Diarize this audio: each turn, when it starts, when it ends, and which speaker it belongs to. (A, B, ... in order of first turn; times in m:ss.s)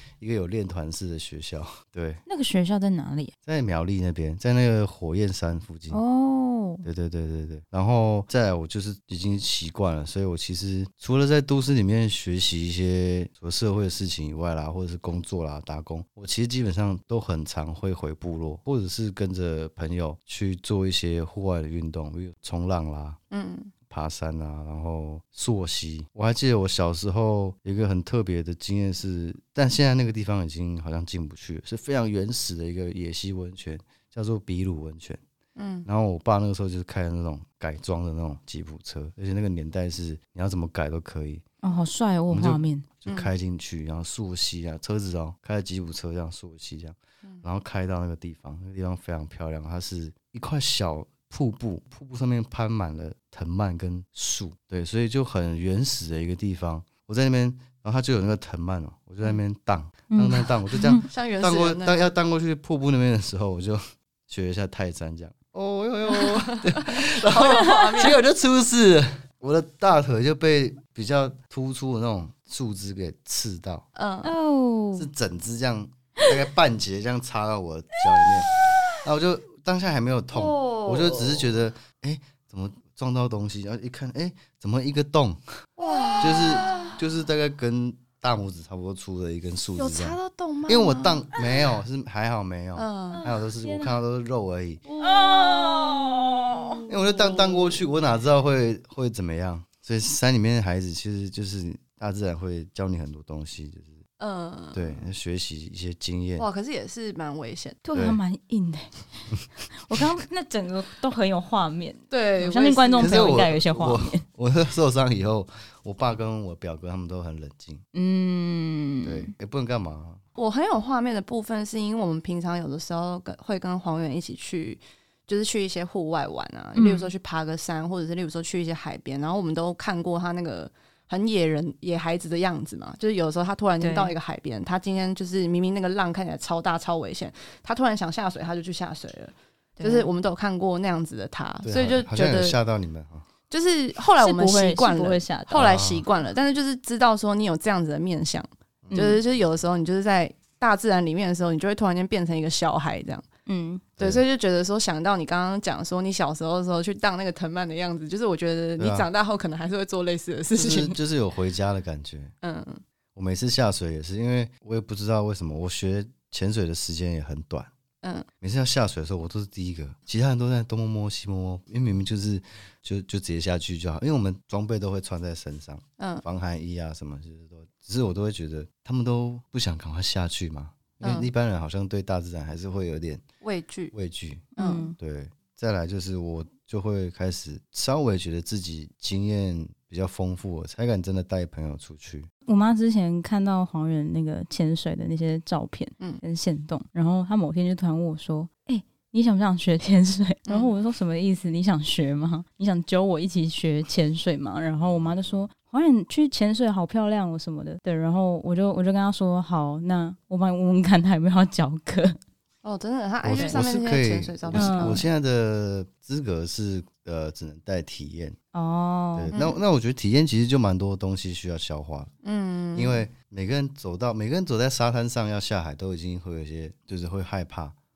0:00.2-0:02.2 A
0:02.2-0:03.3 B
0:03.4-0:06.0 A
0:05.9-0:06.8 B
0:06.8-0:23.2 A
0:23.3-0:23.7 C
0:23.9-0:35.2 A
0:35.6-0:35.9 C
0:35.8-0:41.4 A
0:41.6-0:42.8 B
0:42.3-1:13.8 A
1:00.1-1:01.1 B
1:01.1-1:02.0 C
1:06.1-1:08.2 C
1:14.0-1:14.3 C
1:14.2-1:15.1 B
1:15.0-1:25.4 A
1:20.3-1:21.5 C
1:25.8-1:27.0 C
1:26.2-1:34.8 A
1:29.8-1:31.2 C
1:32.8-1:33.2 C
1:33.1-1:33.9 B
1:34.9-1:37.8 C
1:35.0-1:36.8 B
1:36.9-1:44.0 A
1:44.2-1:45.0 C
1:44.7-1:46.4 A
1:46.4-1:47.8 C
1:47.8-1:54.2 B
1:47.9-1:48.2 A
1:52.1-1:53.3 C
1:53.0-1:57.8 A
1:57.9-1:59.3 B
1:59.0-2:00.2 A
2:00.4-2:22.6 C
2:06.7-2:07.1 B
2:13.8-2:14.1 B
2:19.8-2:20.1 B
2:21.6-2:23.3 A
2:23.5-2:33.2 C
2:24.2-2:25.6 B
2:25.5-2:26.0 A
2:28.8-2:29.2 A
2:28.9-2:29.2 B
2:33.4-2:33.8 B
2:34.0-2:41.0 C
2:38.8-2:39.1 A
2:40.5-2:42.3 A
2:42.4-2:42.8 C
2:43.1-2:47.7 A
2:48.0-2:48.3 C
2:48.4-3:03.2 A
2:56.0-2:56.2 C
3:01.0-3:01.3 C
3:03.4-3:03.9 C
3:03.9-3:12.3 A
3:04.6-3:05.0 B
3:04.6-3:04.9 C
3:12.4-3:32.2 B
3:24.9-3:25.4 A
3:32.6-3:35.0 C
3:33.2-3:38.4 A
3:33.3-3:33.6 B
3:34.5-3:35.0 B
3:38.5-3:39.3 B
3:39.2-3:42.1 A
3:39.3-3:39.6 C
3:42.2-3:43.0 C
3:42.7-3:47.8 A